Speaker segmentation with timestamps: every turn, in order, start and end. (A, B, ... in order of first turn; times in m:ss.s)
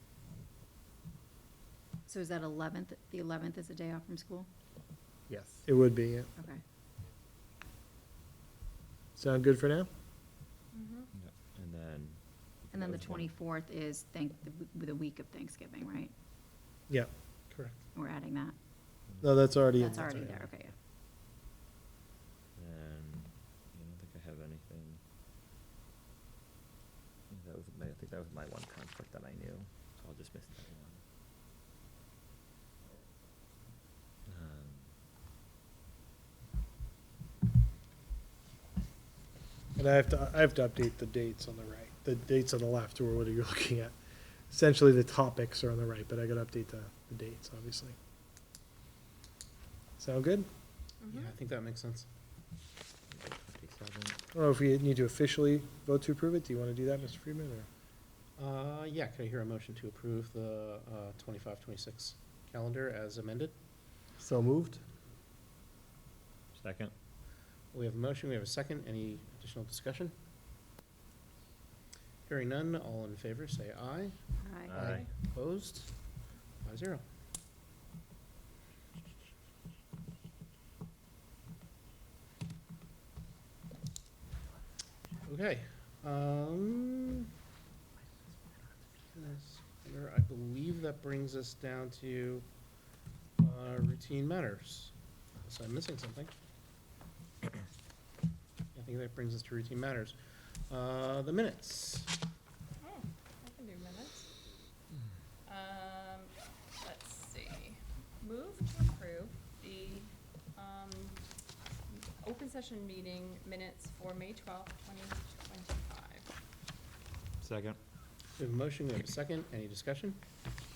0:02.1-0:04.5 A
0:05.3-0:06.3 B
0:06.4-0:06.6 A
0:09.2-0:09.9 B
0:10.7-0:11.1 C
0:11.1-0:13.3 D
0:12.7-0:16.1 A
0:16.9-0:17.8 B
0:17.9-0:18.6 A
0:19.1-0:19.6 D
0:19.2-0:20.3 B
0:19.7-0:20.8 A
0:22.6-0:25.0 D
0:27.3-0:31.0 D
0:34.3-0:34.9 D
0:39.8-0:43.9 B
0:44.5-0:48.0 B
0:50.0-0:50.5 B
0:51.0-0:51.3 C
0:51.1-0:52.1 E
0:53.1-0:54.2 D
0:54.3-0:57.7 B
0:58.4-1:03.5 E
1:04.2-1:04.8 B
1:06.5-1:06.9 D
1:07.7-1:10.1 E
1:12.3-1:14.1 E
1:14.4-1:14.8 A
1:14.7-1:15.1 D
1:14.7-1:15.9 E
1:16.6-1:17.0 E
1:25.2-1:27.3 E
1:29.2-1:32.4 E
1:33.4-1:36.3 E
1:38.8-1:40.2 E
1:40.7-1:42.1 E
1:42.8-1:44.3 C
1:45.5-1:51.2 C
1:51.9-1:56.3 C
1:57.4-1:57.8 D
1:58.4-2:00.2 E